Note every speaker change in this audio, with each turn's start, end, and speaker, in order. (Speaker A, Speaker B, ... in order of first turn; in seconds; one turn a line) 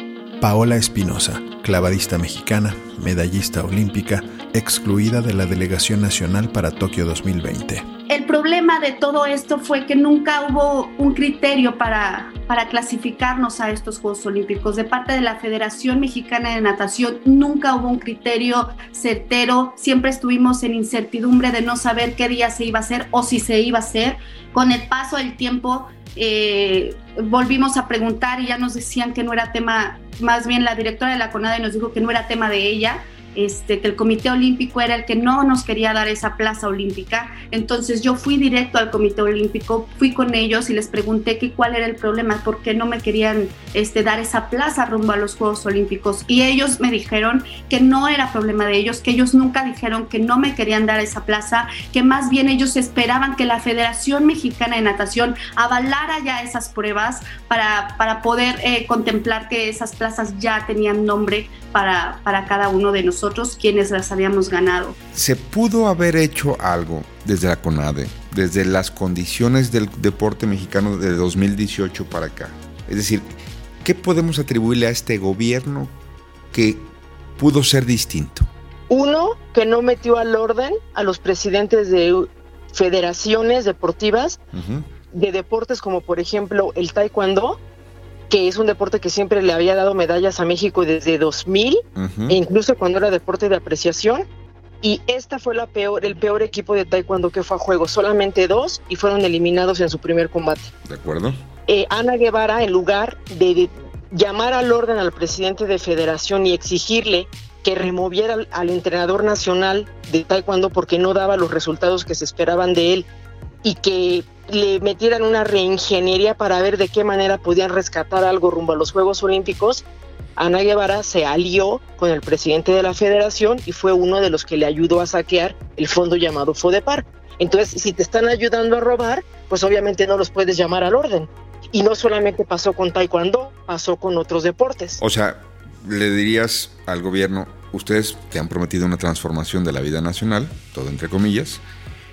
Speaker A: 0.4-7.8
Speaker B: 8.1-65.0
Speaker C: 65.2-73.3
Speaker C: 73.8-75.9
Speaker C: 76.5-76.9
Speaker C: 77.4-78.5
Speaker D: 78.9-84.4
Speaker C: 84.5-84.9
Speaker D: 85.1-87.6
Speaker D: 88.3-94.3
Speaker C: 92.0-92.4
Speaker D: 94.8-100.7
Speaker C: 100.9-101.4
Speaker D: 101.7-113.1
Speaker D: 113.6-119.8
Speaker D: 120.4-135.0
Speaker C: 135.0-141.6